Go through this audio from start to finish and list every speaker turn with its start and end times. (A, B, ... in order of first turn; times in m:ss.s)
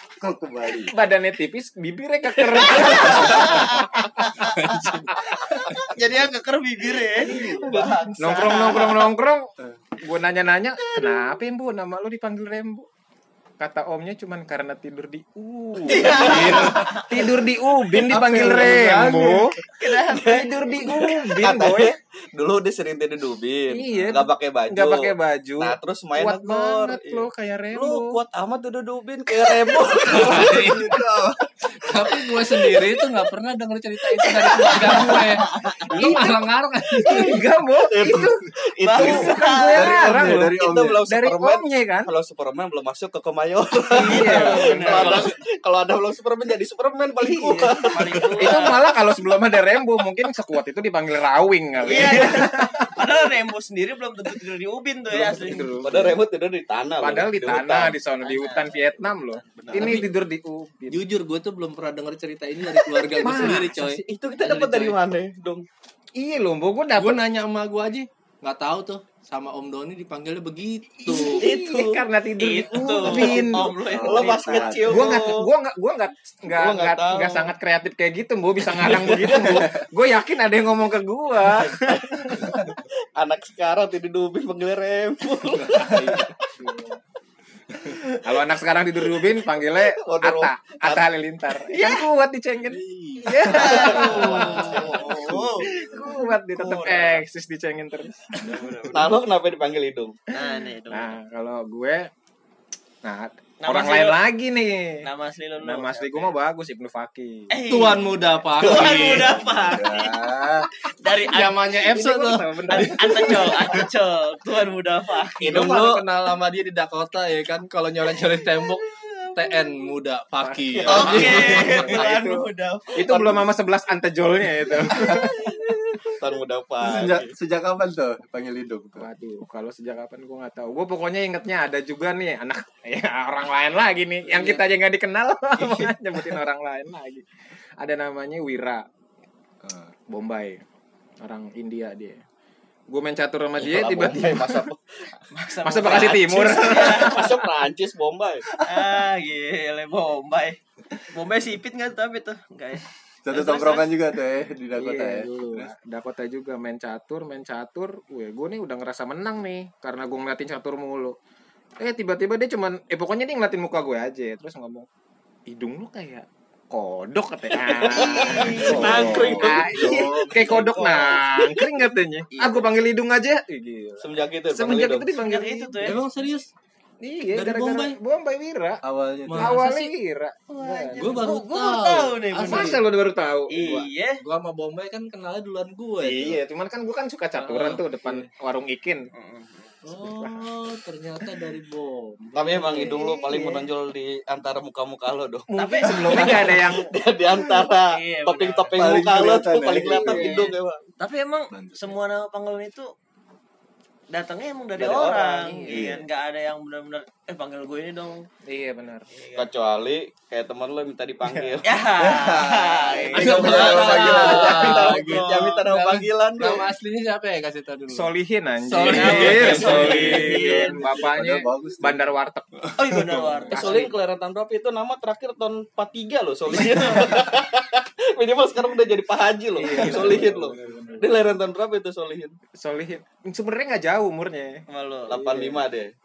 0:00.2-0:00.9 A
0:00.9-0:04.4 B
0:02.7-0:08.9 C
0:02.9-0:03.2 A
0:04.5-0:05.1 D
0:07.2-0:07.9 A
0:07.3-0:09.1 E
0:08.2-0:12.9 B
0:13.6-0:19.6 B
0:15.9-0:17.2 C
0:15.9-0:16.6 E
0:16.0-0:16.7 A
0:18.0-0:19.5 A
0:19.8-0:20.9 C
0:20.1-0:31.0 E
0:20.2-0:21.9 B
0:23.7-0:28.2 B
0:29.6-0:30.3 C
0:30.0-0:31.0 D
0:30.1-0:31.4 A
0:31.7-0:37.4 D
0:34.2-0:36.2 C
0:35.5-0:36.2 E
0:35.9-0:38.4 B
0:37.8-0:39.5 E
0:38.8-0:40.0 C
0:38.9-0:42.1 B
0:39.1-0:41.0 A
0:40.5-0:48.6 E
0:43.9-0:45.3 B
0:44.0-0:45.3 C
0:47.2-0:52.9 B
0:47.5-0:48.8 C
0:51.8-0:55.8 C
0:55.1-0:56.2 B
0:55.8-0:58.0 E
0:57.0-1:01.0 B
0:58.2-1:00.1 C
0:59.7-1:00.1 D
1:00.9-1:05.0 D
1:03.1-1:03.9 B
1:03.7-1:05.6 E
1:06.2-1:07.2 B
1:07.0-1:11.5 D
1:11.1-1:12.0 E
1:11.1-1:22.7 B
1:12.4-1:15.1 C
1:13.0-1:15.5 E
1:13.9-1:15.1 A
1:16.5-1:17.5 E
1:18.6-1:19.6 E
1:21.4-1:26.3 E
1:25.6-1:26.0 D
1:25.8-1:27.0 B
1:28.0-1:35.1 B
1:29.6-1:31.0 E
1:32.6-1:34.8 D
1:33.4-1:37.2 C
1:33.5-1:35.4 E
1:33.5-1:33.9 A
1:35.1-1:35.5 A
1:35.7-1:38.6 B
1:38.3-1:39.2 C
1:38.9-1:40.2 E
1:40.3-1:41.2 C
1:40.9-1:42.1 B
1:43.0-1:45.1 B
1:43.6-1:44.2 C
1:45.0-1:46.3 C
1:45.6-1:48.0 B
1:47.5-1:51.8 C
1:47.6-1:49.4 D
1:48.6-1:49.1 E
1:49.3-1:50.7 A
1:51.2-1:53.6 D
1:51.8-1:53.7 B
1:52.7-1:55.7 C
1:55.4-1:56.0 E
1:55.4-2:01.9 D
2:00.4-2:05.7 B
2:00.7-2:01.8 E
2:00.9-2:03.3 C
2:03.1-2:03.3 E
2:04.9-2:05.2 E
2:06.0-2:07.3 E
2:06.8-2:09.1 A
2:09.0-2:17.3 B
2:14.3-2:14.6 E
2:15.6-2:15.9 E
2:17.8-2:18.8 B
2:19.6-2:19.9 A
2:20.1-2:20.6 B
2:21.2-2:22.2 B
2:22.9-2:24.6 B
2:23.6-2:25.1 E
2:25.3-2:27.3 C
2:25.6-2:27.4 B
2:25.8-2:28.5 E
2:28.6-2:33.9 C
2:33.2-2:35.7 A
2:34.8-2:41.2 B
2:35.1-2:35.6 D
2:41.8-2:44.9 B
2:45.5-2:55.8 B
2:47.6-2:51.7 E
2:47.9-2:51.1 C
2:48.9-2:50.2 A
2:52.4-2:52.6 C
2:54.0-2:55.1 E
2:55.1-2:56.0 C
2:55.8-2:56.5 D
2:57.0-2:58.8 B
2:57.3-2:58.0 D
2:58.8-2:59.6 A
2:59.3-2:59.9 D
2:59.3-3:01.2 B
3:00.5-3:02.8 C
3:01.0-3:02.8 D
3:02.5-3:03.6 B
3:03.5-3:04.2 C
3:03.6-3:06.4 D
3:06.0-3:09.1 B
3:07.4-3:08.3 D
3:09.1-3:09.8 C
3:09.8-3:13.0 D
3:10.0-3:10.5 B
3:12.3-3:20.8 E
3:12.7-3:13.6 B
3:15.5-3:16.9 B
3:15.5-3:16.5 C
3:17.9-3:18.7 C
3:18.7-3:20.4 A
3:19.9-3:20.5 B
3:21.0-3:22.9 C
3:21.5-3:21.9 A
3:24.1-3:28.3 C
3:24.8-3:25.4 E
3:25.4-3:25.9 B
3:25.7-3:26.0 A
3:28.4-3:29.1 B
3:29.1-3:29.5 C
3:29.4-3:31.7 E
3:31.6-3:35.5 C
3:32.0-3:34.6 A
3:33.1-3:36.6 E
3:33.2-3:38.1 D
3:37.9-3:43.0 B
3:38.6-3:40.8 D
3:38.8-3:40.8 C
3:39.4-3:40.1 E
3:40.8-3:42.0 A
3:42.8-3:43.9 C
3:42.9-3:43.3 A
3:43.5-3:43.9 B
3:43.5-3:52.4 E
3:46.5-3:47.2 C
3:49.6-3:51.1 B
3:49.7-3:50.2 C
3:52.6-3:55.6 B
3:54.7-3:55.2 C
3:55.1-3:55.9 E